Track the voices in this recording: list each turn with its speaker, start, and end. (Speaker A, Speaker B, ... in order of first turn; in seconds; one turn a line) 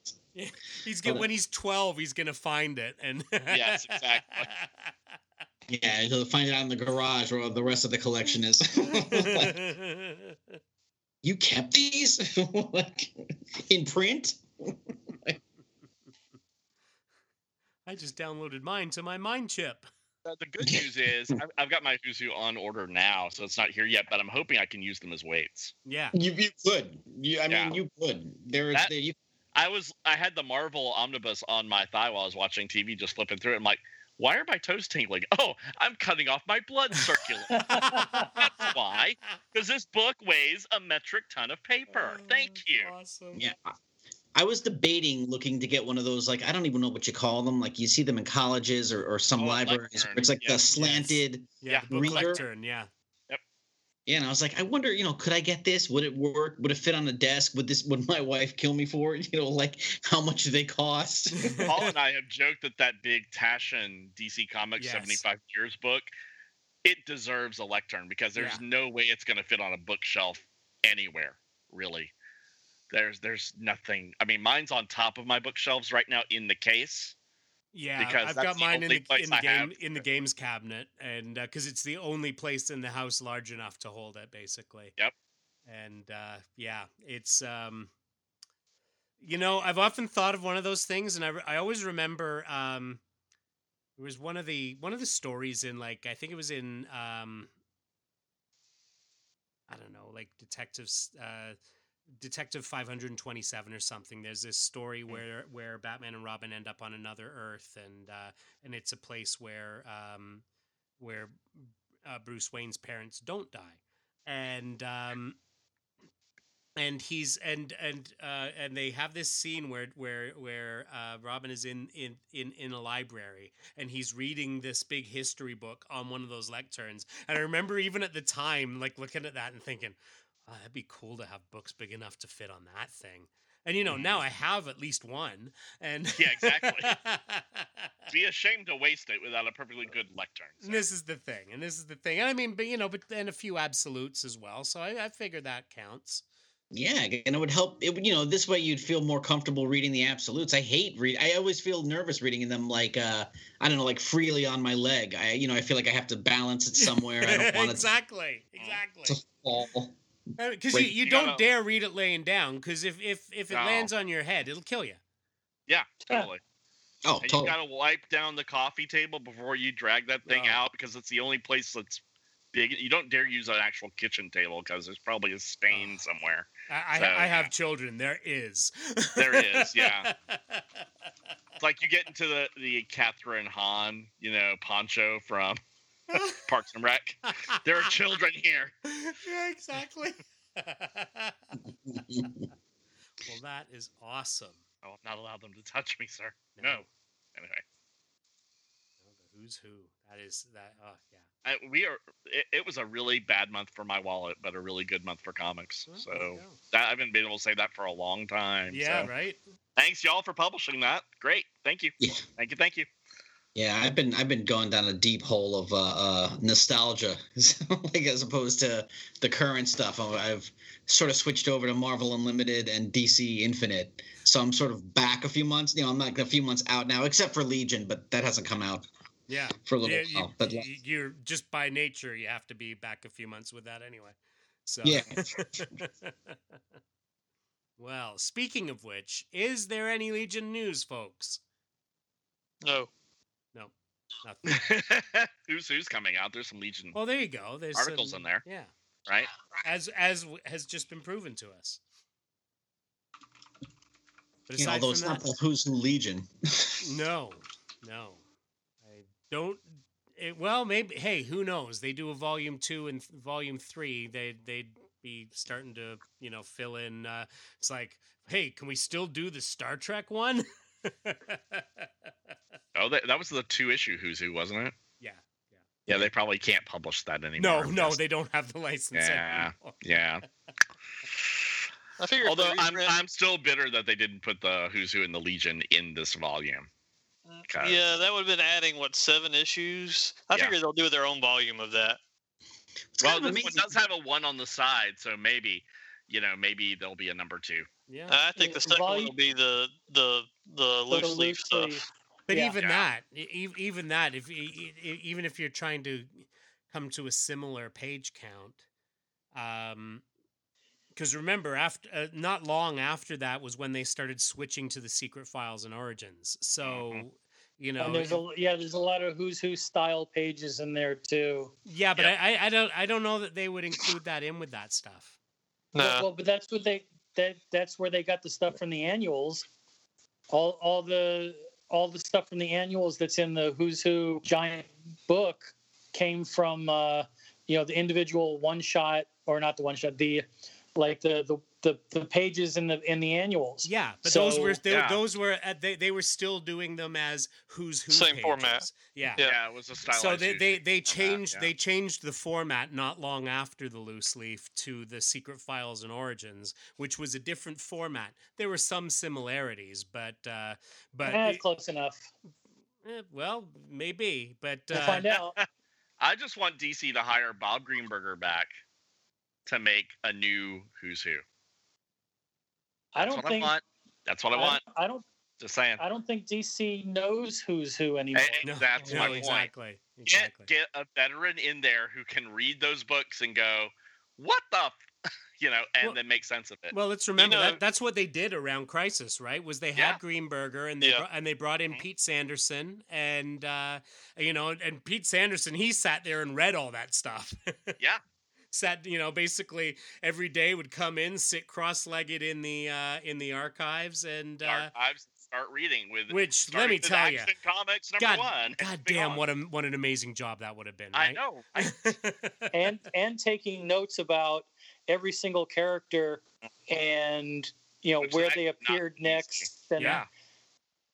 Speaker A: 0.3-4.9
Speaker B: 3.5-4.5
Speaker C: 5.7-9.6
Speaker A: 8.9-10.4
Speaker C: 11.2-13.1
Speaker C: 13.7-15.4
Speaker A: 17.9-19.9
Speaker B: 20.2-25.7
Speaker C: 20.7-21.4
Speaker A: 25.9-26.1
Speaker C: 26.1-29.1
Speaker B: 27.5-27.8
Speaker B: 29.6-42.9
Speaker D: 37.5-38.3
Speaker A: 37.7-38.7
Speaker A: 41.9-43.5
Speaker C: 43.4-43.7
Speaker C: 44.4-52.4
Speaker B: 49.4-51.2
Speaker A: 50.8-51.1
Speaker A: 51.6-52.9
Speaker B: 51.7-52.5
Speaker C: 54.1-61.5
Speaker A: 61.4-61.9
Speaker B: 61.7-66.1
Speaker A: 64.8-65.2
Speaker B: 66.8-72.1
Speaker A: 68.4-68.6
Speaker B: 72.9-77.2
Speaker A: 77.7-84.9
Speaker B: 78.0-79.9
Speaker A: 85.7-87.9
Speaker A: 89.2-93.0
Speaker A: 94.0-97.5
Speaker A: 99.7-101.6
Speaker A: 102.2-110.4
Speaker A: 111.0-115.4
Speaker A: 116.8-137.9
Speaker B: 133.9-134.2
Speaker B: 136.2-137.0
Speaker B: 138.1-140.8
Speaker A: 140.6-146.2
Speaker C: 146.7-157.9
Speaker A: 156.8-159.2
Speaker C: 159.1-159.9
Speaker A: 160.4-165.0
Speaker B: 161.0-161.4
Speaker B: 163.5-163.9
Speaker B: 165.7-166.4
Speaker C: 167.1-167.6
Speaker B: 167.2-172.0
Speaker A: 170.3-170.6
Speaker B: 172.5-177.5
Speaker A: 175.7-176.0
Speaker A: 176.7-180.7
Speaker B: 179.2-180.1
Speaker B: 181.6-185.6
Speaker A: 186.1-186.4
Speaker B: 186.3-188.7
Speaker A: 187.5-187.8
Speaker A: 188.9-191.6
Speaker C: 191.9-192.4
Speaker A: 193.2-194.6
Speaker B: 194.8-196.8
Speaker A: 196.6-196.9
Speaker B: 197.4-197.6
Speaker A: 199.0-201.3
Speaker B: 201.4-209.1
Speaker A: 205.9-206.6
Speaker A: 208.7-209.4
Speaker B: 209.8-212.9
Speaker C: 213.6-228.9
Speaker A: 229.3-236.3
Speaker C: 229.7-230.7
Speaker C: 234.8-235.7
Speaker A: 237.8-241.4
Speaker E: 242.6-242.9
Speaker A: 243.5-244.6
Speaker B: 244.5-247.0
Speaker A: 246.9-248.7
Speaker B: 247.8-248.4
Speaker A: 249.6-251.8
Speaker A: 254.5-255.2
Speaker C: 254.6-256.8
Speaker A: 256.8-258.2
Speaker A: 258.8-271.9
Speaker B: 272.8-274.8
Speaker A: 275.0-275.3
Speaker B: 275.9-278.0
Speaker A: 277.4-279.8
Speaker B: 278.9-280.2
Speaker B: 281.1-281.5
Speaker E: 282.0-283.0
Speaker B: 282.2-286.7
Speaker E: 287.3-292.0
Speaker B: 287.5-287.9
Speaker C: 292.9-293.8
Speaker B: 293.0-297.7
Speaker A: 297.9-298.2
Speaker E: 298.1-301.8
Speaker D: 298.4-299.1
Speaker D: 300.9-302.6
Speaker A: 302.3-308.6
Speaker B: 302.6-302.9
Speaker A: 309.3-310.0
Speaker A: 310.9-318.2
Speaker B: 316.6-317.0
Speaker D: 317.8-321.5
Speaker A: 321.7-325.1
Speaker E: 325.8-326.1
Speaker D: 325.8-329.4
Speaker D: 330.3-344.6
Speaker A: 343.6-349.2
Speaker B: 344.7-345.0
Speaker E: 347.9-349.4
Speaker B: 349.2-351.5
Speaker A: 349.9-361.4
Speaker D: 361.0-362.1
Speaker A: 362.8-365.1
Speaker D: 364.7-365.4
Speaker B: 364.8-365.4
Speaker B: 366.0-368.6
Speaker B: 369.5-371.2
Speaker D: 372.9-373.5
Speaker B: 373.0-374.6
Speaker D: 374.3-375.0
Speaker B: 375.4-375.8
Speaker D: 375.8-378.5
Speaker B: 378.1-379.5
Speaker A: 378.4-380.5
Speaker B: 380.1-384.8
Speaker B: 385.4-386.7
Speaker A: 386.7-397.8
Speaker E: 387.2-387.6
Speaker A: 398.5-404.7
Speaker B: 404.4-409.2
Speaker A: 406.1-407.3
Speaker A: 408.0-412.5
Speaker B: 410.9-411.7
Speaker D: 412.5-420.0
Speaker B: 418.0-419.9
Speaker A: 419.8-420.1